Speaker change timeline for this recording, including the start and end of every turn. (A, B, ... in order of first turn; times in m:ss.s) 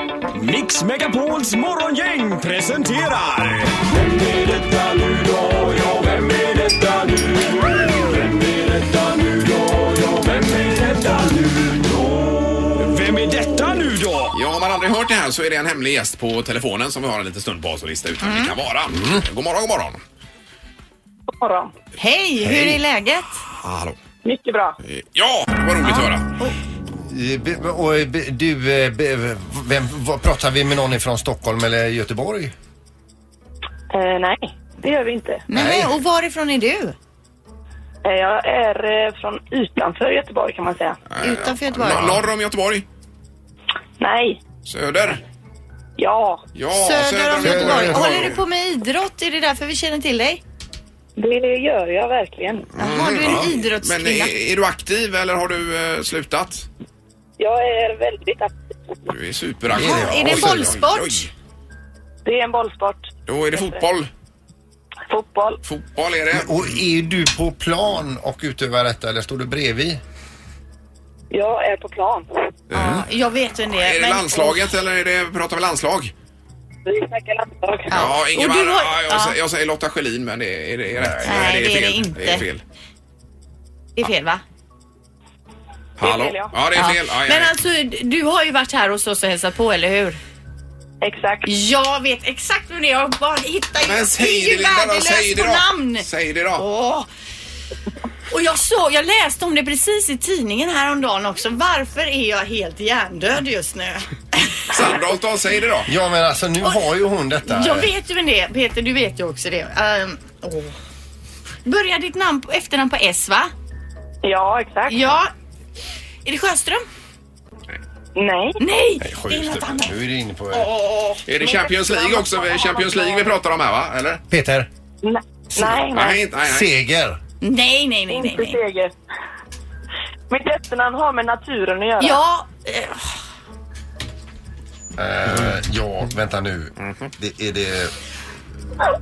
0:00.3-0:14.3 A
0:14.3-0:20.0 B
0:18.2-0:18.5 C
0:18.9-0:19.2 D
0:21.3-0:21.7 E
0:22.0-0:23.4 C
0:22.4-0:22.8 D
0:23.6-0:24.0 B
0:24.2-0:24.8 E
0:24.8-0:26.3 B
0:25.8-0:26.5 C
0:27.0-0:32.5 D
0:33.9-0:35.4 E
0:35.5-0:36.9 C
0:35.5-0:36.0 D
0:38.0-0:41.0 E
0:41.1-0:42.8 B
0:41.2-0:42.2 C
0:44.0-0:44.4 E
0:44.6-0:45.2 B
0:46.0-0:46.4 E
0:46.5-0:48.4 B
0:46.7-0:50.4 C
0:47.4-0:48.4 D
0:51.2-0:52.7 E
0:52.8-0:54.3 C
0:52.8-0:56.7 B
0:53.2-0:53.5 D
0:57.4-0:58.6 E
0:59.1-1:01.3 B
0:59.7-1:00.8 D
0:59.7-1:01.3 C
1:02.2-1:03.8 E
1:03.3-1:04.1 B
1:05.1-1:05.6 E
1:05.6-1:06.7 B
1:06.3-1:10.0 D
1:11.3-1:12.2 E
1:12.7-1:13.0 B
1:12.7-1:14.7 C
1:13.7-1:16.1 B
1:16.8-1:18.0 E
1:17.9-1:19.4 C
1:17.9-1:22.6 B
1:21.0-1:21.4 D
1:21.2-1:22.4 C
1:24.0-1:24.4 C
1:26.0-1:27.5 B
1:26.0-1:26.6 E
1:26.7-1:30.2 C
1:31.0-1:31.5 E
1:31.4-1:37.1 C
1:33.8-1:36.6 B
1:38.3-1:44.6 C
1:44.7-1:45.9 B
1:45.9-1:47.9 D
1:47.4-1:50.7 C
1:51.6-1:53.5 C
1:54.2-1:55.0 E
1:54.9-1:55.3 C
1:56.2-1:56.8 C
1:58.2-1:58.6 E
1:58.6-1:59.9 C
1:59.0-2:00.7 D
2:00.5-2:03.3 E
2:01.2-2:04.2 B
2:04.3-2:04.7 D
2:05.0-2:06.2 E
2:05.9-2:06.7 B
2:06.4-2:07.2 D
2:07.4-2:08.6 C
2:08.1-2:08.9 E
2:10.3-2:12.2 E
2:12.0-2:13.1 C
2:15.0-2:17.9 D
2:16.8-2:17.1 B